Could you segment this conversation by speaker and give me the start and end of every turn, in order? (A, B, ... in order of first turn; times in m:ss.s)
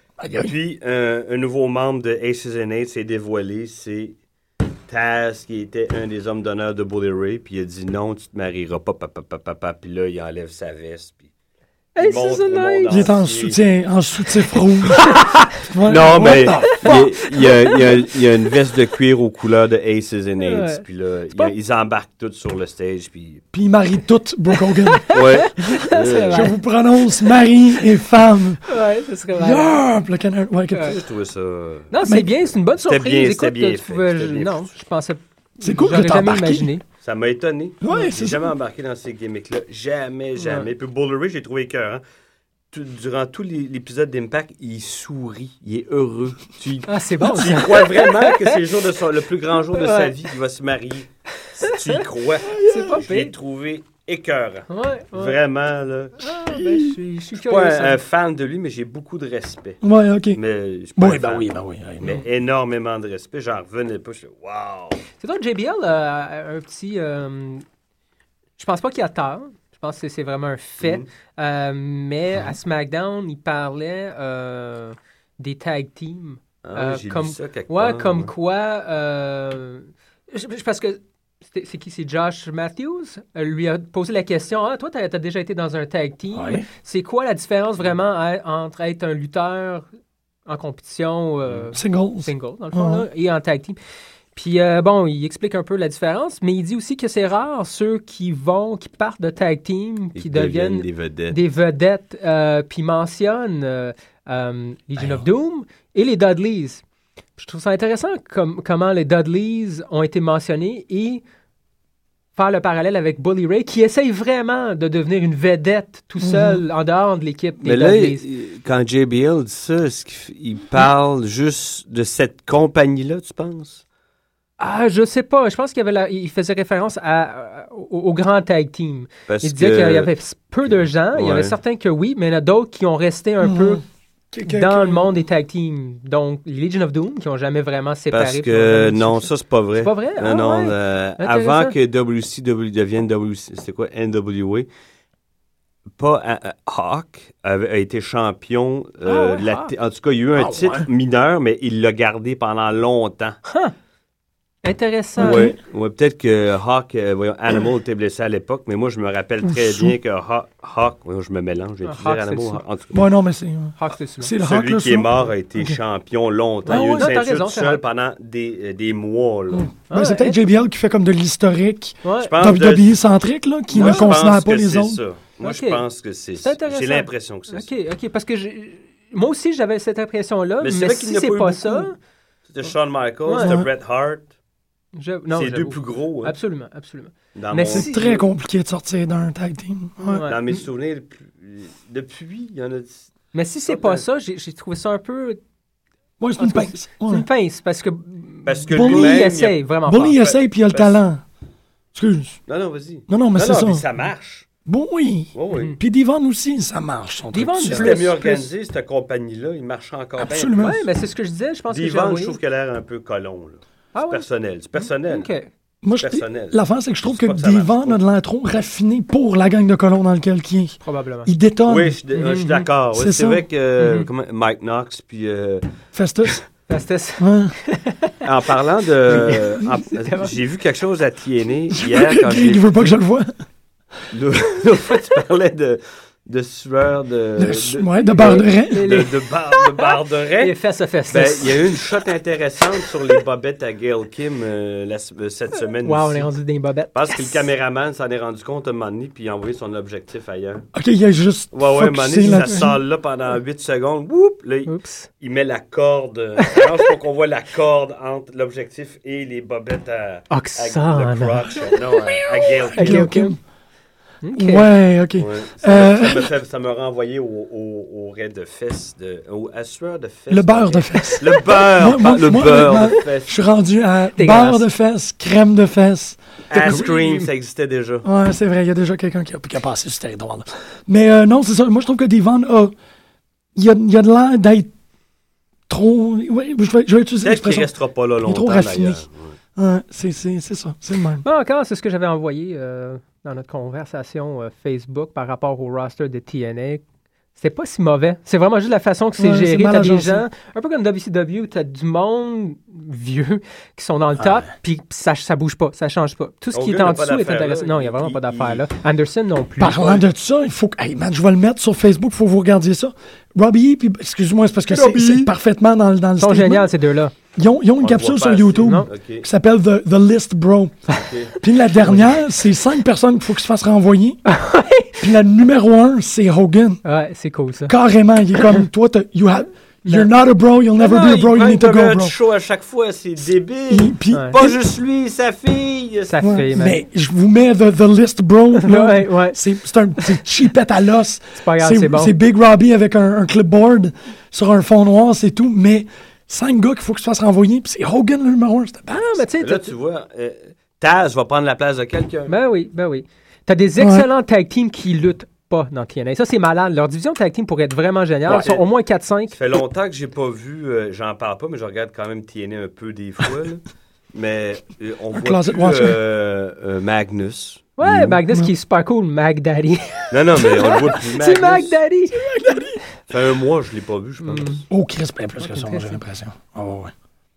0:00.2-0:00.5 A
0:00.4-0:04.2 B
0:04.9-0:11.3 B
0:12.0-0:13.1 C
0:12.0-0:13.6 B
0:12.9-0:17.8 A
0:15.8-0:23.4 B
0:20.4-0:20.8 C
0:23.5-0:25.2 A
0:24.6-0:26.6 C
0:25.1-0:26.5 B
0:25.7-0:30.9 A
0:28.7-0:29.8 C
0:30.7-0:31.0 C
0:30.8-0:31.9 B
0:31.9-0:36.8 C
0:32.8-0:34.7 B
0:35.6-0:36.7 A
0:37.0-0:42.0 B
0:37.8-0:38.5 A
0:40.4-0:40.7 C
0:42.7-0:56.2 B
0:46.9-0:48.6 C
0:49.7-0:50.1 C
0:51.7-0:52.0 C
0:52.5-0:53.0 A
0:52.6-0:53.3 C
0:54.7-0:55.4 C
0:56.2-0:58.0 C
0:56.5-0:56.9 A
0:57.4-0:59.8 B
0:59.8-1:00.4 A
1:00.3-1:01.5 B
1:01.0-1:02.2 A
1:02.0-1:05.0 B
1:05.2-1:07.6 C
1:08.6-1:29.9 C
1:10.8-1:11.1 B
1:16.6-1:18.3 B
1:26.3-1:26.7 A
1:30.5-1:33.8 C
1:31.7-1:33.1 A
1:34.4-1:46.8 C
1:40.2-1:41.4 B
1:45.0-1:45.2 A
1:47.4-1:51.2 C
1:52.4-1:58.3 C
1:56.2-1:56.6 A
1:57.6-2:03.8 B
2:04.6-2:13.8 C
2:09.3-2:10.1 B
2:10.7-2:11.6 B
2:13.4-2:15.2 A
2:14.5-2:21.8 C
2:18.1-2:24.7 B
2:26.0-2:33.4 B
2:29.0-2:29.7 C
2:30.4-2:30.9 A
2:33.5-2:33.7 C
2:34.6-2:35.5 C
2:35.2-2:35.6 A
2:35.2-2:43.0 B
2:39.4-2:40.0 A
2:41.8-2:42.6 C
2:42.9-2:45.8 A
2:43.8-2:44.3 C
2:44.4-2:49.7 B
2:46.7-2:47.8 C
2:46.7-2:47.1 A
2:49.5-2:55.0 A
2:49.9-2:50.4 C
2:52.0-2:52.3 C
2:52.2-2:53.0 B
2:53.7-2:57.7 B
2:53.8-2:54.1 C
2:55.4-2:55.8 C
2:56.4-3:02.0 C
3:00.6-3:01.9 B
3:02.5-3:04.3 B
3:03.3-3:03.5 C
3:03.4-3:03.7 A
3:05.0-3:08.2 C
3:05.3-3:06.4 B
3:07.4-3:08.2 B
3:07.7-3:10.3 A
3:10.0-3:10.4 C
3:10.3-3:13.1 B
3:13.3-3:15.4 C
3:13.7-3:14.0 B
3:16.2-3:17.3 A
3:16.4-3:20.2 C
3:18.5-3:19.6 B
3:18.7-3:19.3 A
3:19.9-3:21.2 A
3:20.2-3:21.0 B
3:22.0-3:22.4 A
3:22.5-3:24.5 B
3:23.1-3:23.8 A
3:24.7-3:28.0 A
3:25.4-3:25.7 B
3:25.5-3:25.8 C
3:27.3-3:28.5 C
3:27.7-3:30.7 B
3:30.2-3:30.8 A
3:30.6-3:32.4 C
3:31.7-3:35.3 B
3:33.9-3:34.3 C
3:34.8-3:35.5 C
3:35.8-3:42.0 A
3:36.0-3:38.0 B
3:40.8-3:41.3 C
3:41.7-3:45.6 B
3:42.2-3:42.7 C
3:42.9-3:43.4 A
3:43.8-3:44.1 C
3:45.9-3:46.4 A
3:46.7-3:48.2 C
3:47.2-3:47.5 A
3:48.2-3:53.0 B
3:49.1-3:50.3 C
3:51.7-3:53.3 A
3:54.1-4:00.6 B
3:57.4-3:58.9 A
3:58.2-4:01.7 C
4:01.1-4:06.3 B
4:05.8-4:07.5 C
4:06.9-4:10.7 B
4:10.7-4:12.8 A
4:11.5-4:23.1 B
4:12.3-4:12.6 C
4:14.7-4:15.1 C
4:16.4-4:16.9 C
4:20.3-4:21.7 C
4:21.8-4:23.4 A
4:22.8-4:23.4 C
4:24.2-4:24.7 C
4:24.4-4:26.3 A
4:25.2-4:33.4 B
4:30.3-4:36.9 A
4:34.2-4:34.6 C
4:36.5-4:38.1 B
4:36.6-4:37.3 C
4:38.0-4:42.7 A
4:43.6-4:44.7 A
4:45.7-4:47.7 A
4:47.2-4:49.4 B
4:48.2-4:49.0 A
4:49.6-4:51.2 A
4:51.2-4:56.8 C
4:57.4-5:09.9 C
4:59.2-5:00.3 A
5:04.2-5:04.5 A
5:06.5-5:08.7 B
5:09.6-5:16.7 A
5:14.7-5:15.3 C
5:16.2-5:17.1 C
5:17.4-5:20.8 A
5:17.8-5:19.3 B
5:18.6-5:18.9 C
5:20.9-5:22.2 B
5:21.4-5:24.2 A
5:24.3-5:25.1 C
5:25.0-5:26.8 A
5:26.8-5:27.7 C
5:27.7-5:32.2 A
5:29.8-5:30.1 C
5:30.8-5:36.5 B
5:33.7-5:34.6 A
5:36.1-5:36.8 C
5:36.2-5:49.2 A
5:38.6-5:39.4 C
5:41.4-5:42.1 C
5:48.9-5:49.7 C
5:49.4-5:52.3 B
5:52.3-5:59.4 C
5:53.8-5:54.0 A
5:58.3-5:58.6 A
5:59.3-6:03.6 B
6:04.1-6:07.7 B
6:05.1-6:06.0 A
6:07.8-6:12.6 C
6:07.8-6:08.5 A
6:10.1-6:11.8 B
6:12.1-6:12.8 A
6:13.1-6:14.6 B
6:14.2-6:14.6 C
6:14.7-6:16.9 A
6:15.4-6:16.0 C